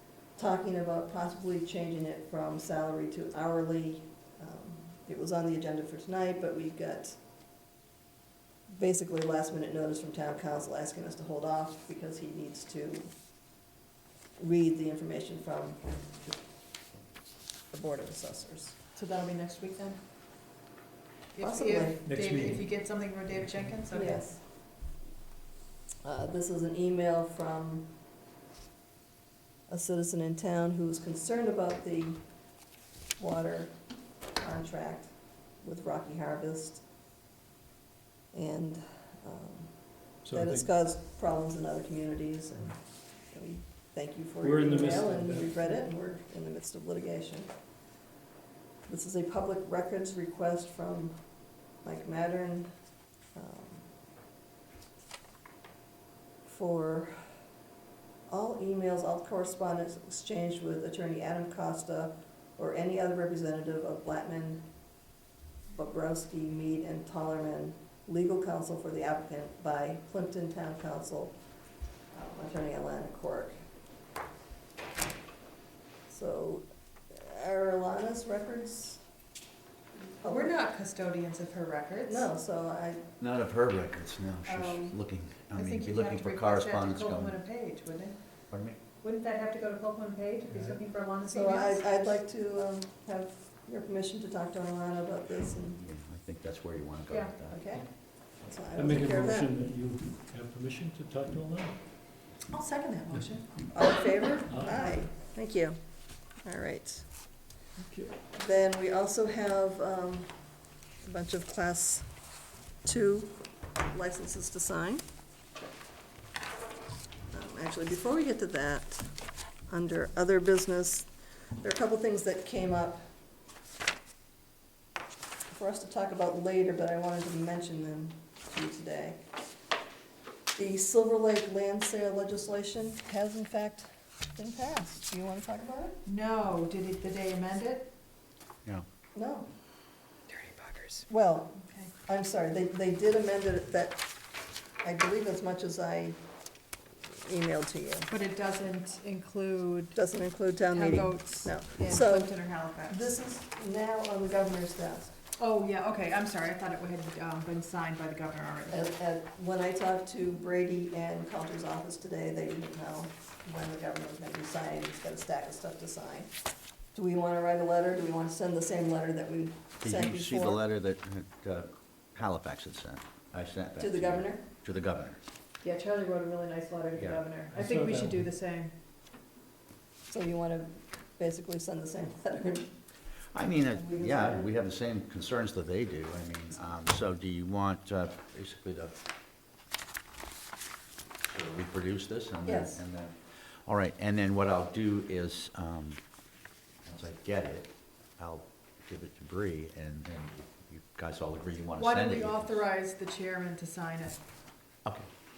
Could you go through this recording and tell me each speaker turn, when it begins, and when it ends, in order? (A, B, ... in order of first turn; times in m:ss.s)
0:00.4-0:07.2 A
0:08.7-0:13.1 A
0:14.4-0:15.8 A
0:17.7-0:18.8 A
0:18.9-0:20.0 B
0:21.3-0:24.3 B
0:21.4-0:22.0 A
0:22.0-0:22.8 C
0:23.3-0:23.8 C
0:23.9-0:24.4 A
0:26.0-0:27.9 A
0:29.7-0:32.2 A
0:33.2-0:33.8 A
0:34.4-0:36.8 A
0:38.3-0:39.7 A
0:40.2-0:40.7 C
0:40.3-0:47.5 A
0:44.4-0:45.7 C
0:48.9-0:51.2 A
0:51.8-0:52.7 A
0:53.3-0:53.9 A
0:56.4-0:57.2 A
0:58.3-1:04.7 A
1:05.7-1:11.4 A
1:12.1-1:13.5 A
1:16.1-1:19.0 A
1:20.0-1:20.5 A
1:20.2-1:22.3 B
1:22.1-1:23.0 A
1:23.2-1:27.4 D
1:24.5-1:25.0 A
1:25.6-1:28.2 B
1:28.5-1:28.8 D
1:29.0-1:31.8 B
1:30.5-1:30.8 C
1:31.3-1:35.8 A
1:35.8-1:37.6 D
1:37.1-1:37.3 B
1:37.5-1:39.5 A
1:38.7-1:41.8 C
1:42.5-1:43.5 B
1:43.7-1:45.8 A
1:44.4-1:45.0 C
1:46.4-1:47.1 A
1:47.8-1:48.2 C
1:48.3-1:50.3 A
1:51.0-1:52.0 A
1:52.8-1:55.0 A
1:57.3-1:59.1 A
1:59.7-2:01.1 A
2:01.6-2:03.0 A
2:05.5-2:09.2 A
2:10.6-2:16.0 A
2:16.0-2:17.9 B
2:19.1-2:19.5 A
2:20.3-2:21.1 B
2:21.1-2:24.0 A
2:21.6-2:21.9 B
2:24.8-2:26.2 A
2:27.1-2:28.1 A
2:28.1-2:30.0 B
2:29.9-2:35.2 A
2:30.7-2:33.0 B
2:35.4-2:38.9 B
2:38.7-2:46.3 A
2:46.9-2:50.6 A
2:49.8-2:55.2 D
2:53.8-2:54.4 A
2:55.6-2:58.7 B
2:57.0-2:57.2 D
2:57.5-2:58.3 C
3:00.1-3:02.7 A
3:03.3-3:09.0 D
3:03.7-3:04.5 A
3:11.2-3:16.0 D
3:12.4-3:12.8 A
3:16.8-3:22.6 D
3:21.8-3:24.2 B